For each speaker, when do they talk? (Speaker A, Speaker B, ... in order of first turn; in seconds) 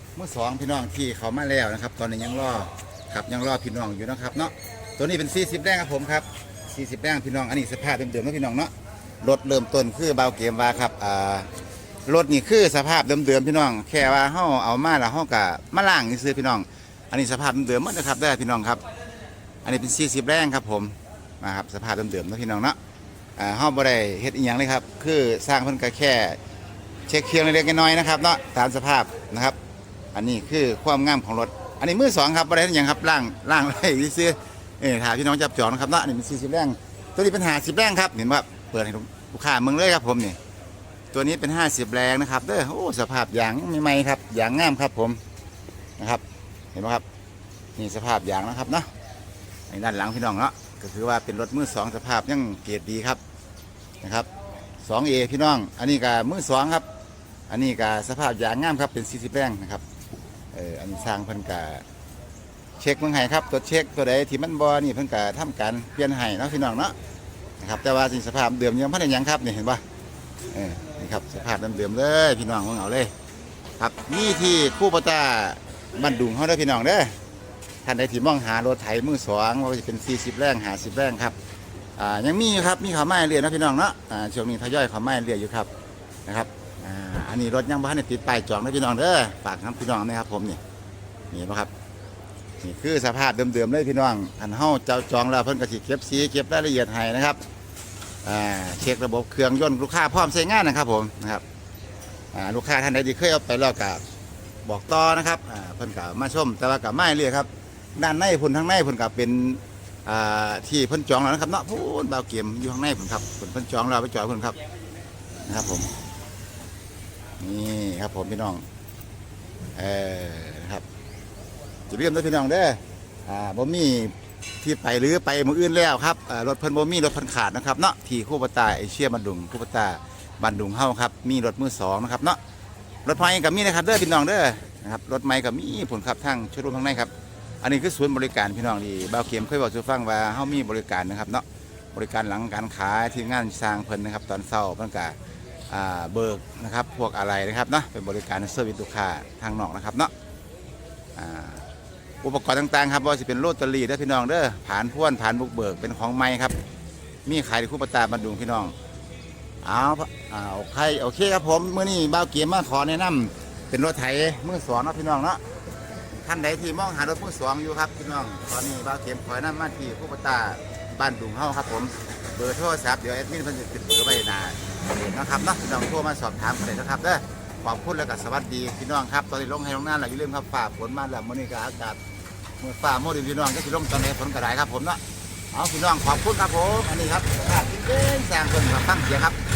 Speaker A: 0.1-11.5, 12.1-18.8, 19.6-22.8, 23.4-26.4, 27.1-29.6, 30.1-40.4, 41.1-45.2, 46.0-46.2, 46.7-47.0, 47.8-48.9, 49.7-53.2, 54.0-54.3, 54.8-56.9, 57.5-59.8, 60.5-61.8, 62.8-66.9, 67.6-69.8, 70.5-73.1, 73.8-77.1, 77.8-81.3, 82.0-85.7, 86.2-90.6, 91.3-91.7, 92.6-97.4, 98.2-101.4, 102.3-104.0, 104.6-114.5, 115.5-115.9, 117.4-118.6, 119.8-120.8, 121.9-132.4, 133.0-145.2, 145.7-150.1, 151.2-151.6, 152.2-156.6, 157.2-158.7, 159.6-165.4, 166.2-182.0, 182.6-185.0, 185.5-189.4